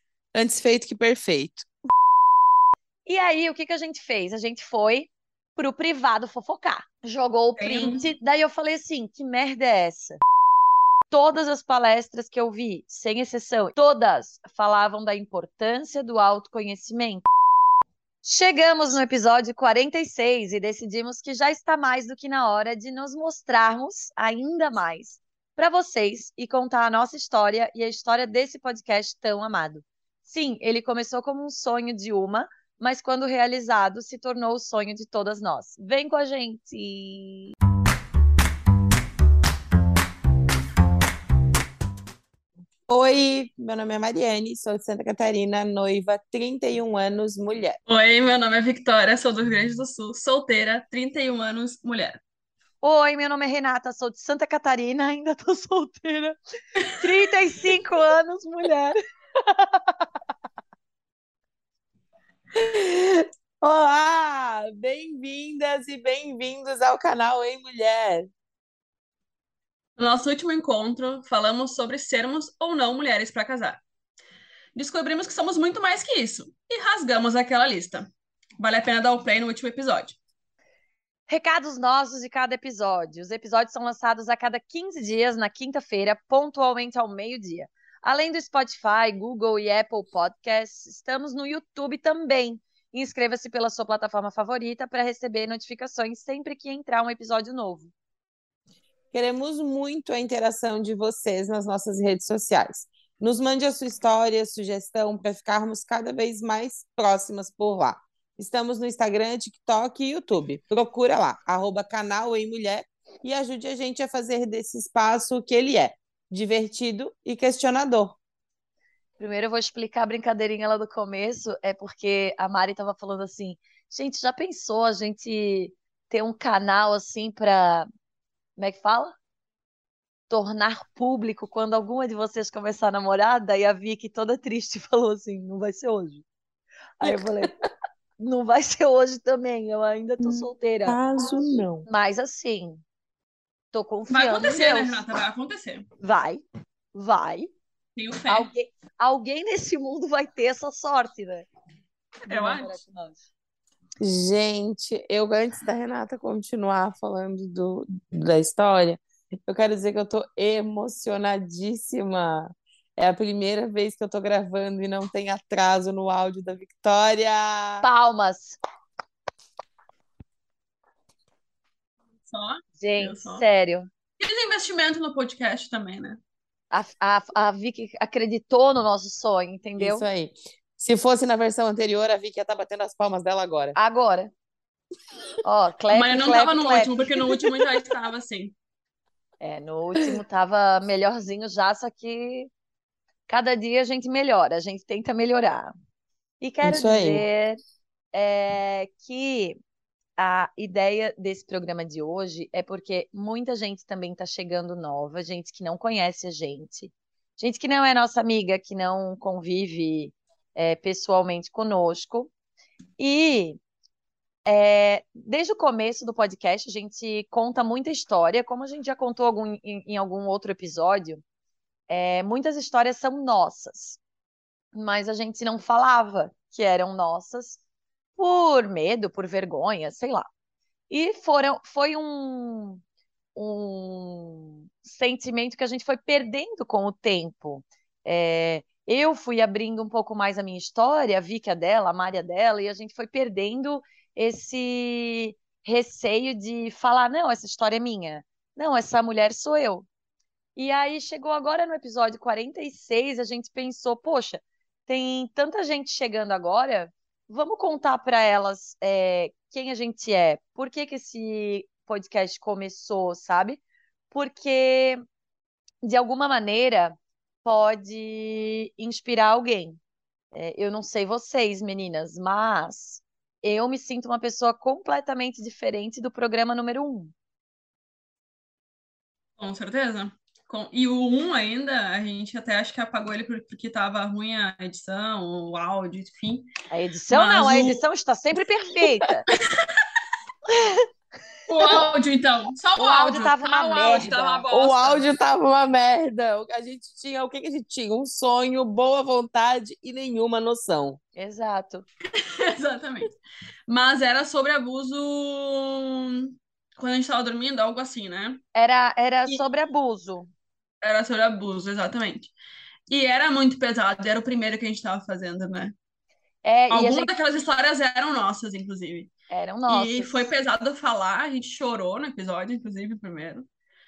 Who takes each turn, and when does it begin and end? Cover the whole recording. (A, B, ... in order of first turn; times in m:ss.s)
0:00.4-0:01.7 A
0:03.1-0:10.2 B
0:07.6-0:08.0 C
0:11.1-0:17.2 B
0:18.2-0:37.5 B
0:42.9-0:47.8 A
0:47.9-0:52.2 C
0:52.8-0:56.4 B
0:57.0-1:00.1 B
1:02.6-1:08.3 A
1:10.0-1:13.8 C
1:14.8-1:20.2 C
1:21.3-1:37.9 B
1:39.1-1:58.2 A
1:59.2-2:07.9 B
2:08.6-2:09.1 B
2:10.3-2:16.2 B
2:17.0-2:17.5 B
2:17.0-2:17.5 A
2:18.2-2:21.0 B
2:20.2-2:21.9 A
2:21.9-2:22.8 B
2:23.7-2:25.0 B
2:24.1-2:25.9 C
2:26.0-2:26.4 B
2:26.9-2:27.5 B
2:28.0-2:28.5 C
2:28.3-2:31.5 B
2:32.2-2:33.2 B
2:32.3-2:32.7 C
2:34.0-2:47.9 A
2:47.8-2:48.6 B
2:52.3-2:53.4 C
2:52.8-2:53.9 B
2:54.2-2:56.2 C
2:56.7-3:00.0 B
2:59.8-3:03.8 A
3:03.8-3:04.3 B
3:05.4-3:07.1 B
3:05.9-3:08.5 C
3:09.4-3:12.5 B
3:13.3-3:15.7 B
3:16.4-3:17.6 B
3:16.6-3:17.2 A
3:18.1-3:19.6 B
3:20.2-3:32.3 B
3:33.0-3:33.6 B
3:34.5-3:41.2 B
3:41.9-3:44.0 B
3:44.7-3:47.6 B
3:48.2-3:50.3 B
3:50.9-3:52.8 B
3:53.4-4:09.9 B
4:10.6-4:25.0 B
4:25.8-4:29.8 B
4:30.3-4:37.1 B
4:39.4-4:46.5 C
4:46.7-4:49.3 B
4:47.1-4:47.8 C
4:49.3-4:49.8 C
4:50.5-4:50.9 B
4:51.5-4:55.1 C
4:52.8-4:54.4 B
4:54.0-5:01.0 A
5:01.2-5:01.9 B
5:02.1-5:03.1 C
5:03.7-5:08.4 C
5:08.6-5:10.3 B
5:10.8-5:12.3 C
5:12.9-5:15.8 C
5:16.4-5:17.1 B
5:16.7-5:19.1 C
5:19.3-5:20.3 B
5:19.7-5:23.5 C